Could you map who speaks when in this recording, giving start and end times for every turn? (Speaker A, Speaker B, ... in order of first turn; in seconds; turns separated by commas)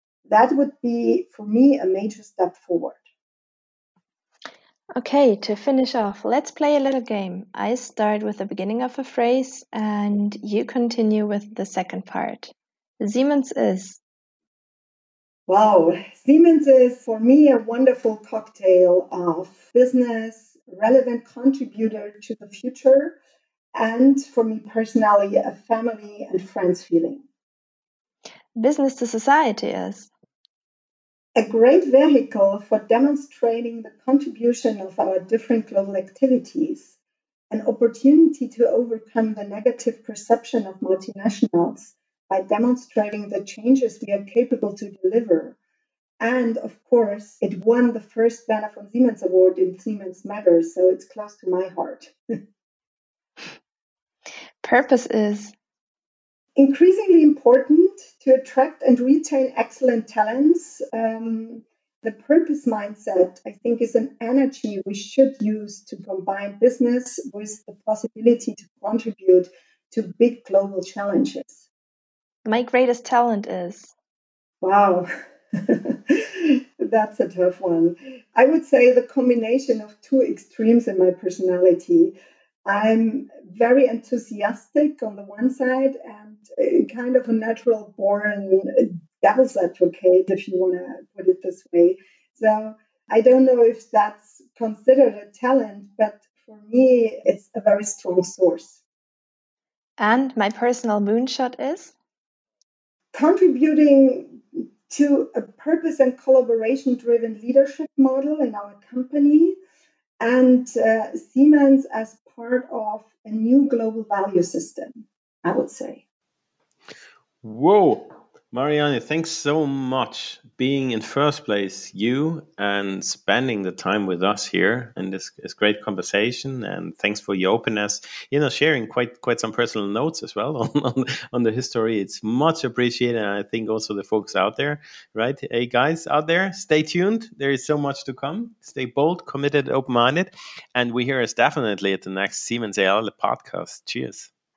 Speaker A: 0.3-3.0, Speaker B: 5.0-14.0, Speaker A: 15.5-23.1, Speaker A: 23.8-27.2, Speaker B: 28.6-30.1, Speaker A: 31.4-37.0, Speaker A: 37.5-45.6, Speaker A: 46.2-52.1, Speaker B: 54.6-55.5, Speaker A: 56.6-71.7, Speaker B: 72.5-73.9, Speaker A: 74.6-75.1, Speaker A: 75.6-82.1, Speaker A: 82.7-98.8, Speaker B: 100.0-101.9, Speaker A: 103.1-109.5, Speaker A: 110.2-116.0, Speaker C: 117.4-144.3